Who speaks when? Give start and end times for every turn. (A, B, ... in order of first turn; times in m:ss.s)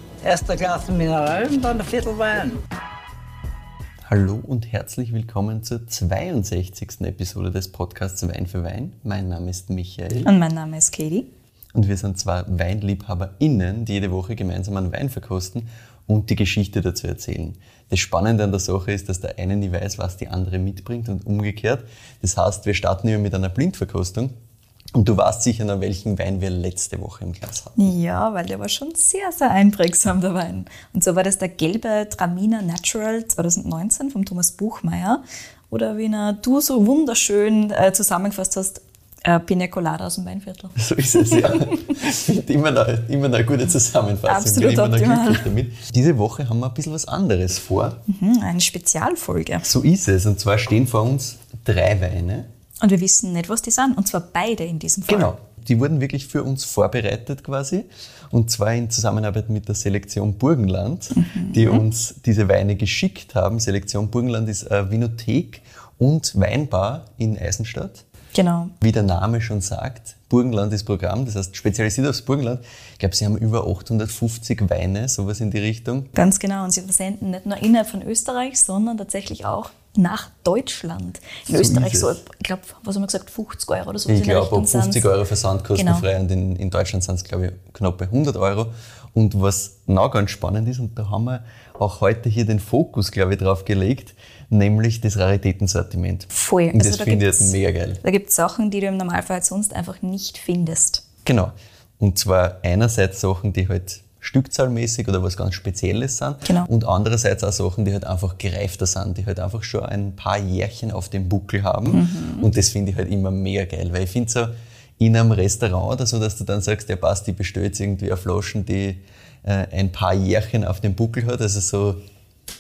0:00.2-0:02.6 A
0:04.1-0:10.3 B
0:10.2-0:11.3 C
0:11.7-0:24.3 B
0:24.9-0:27.9 B
0:27.8-0:41.8 C
0:40.8-0:48.0 B
0:44.3-0:45.5 C
0:48.1-0:49.7 C
0:49.6-0:52.5 B
0:52.8-0:55.3 C
0:55.1-1:08.0 B
1:01.1-1:01.9 C
1:08.3-1:08.7 C
1:08.8-1:16.1 B
1:16.1-1:25.1 C
1:21.5-1:22.2 B
1:24.1-1:38.0 B
1:25.8-1:26.1 C
1:36.3-1:41.0 C
1:41.2-2:02.0 B
1:51.9-1:52.5 C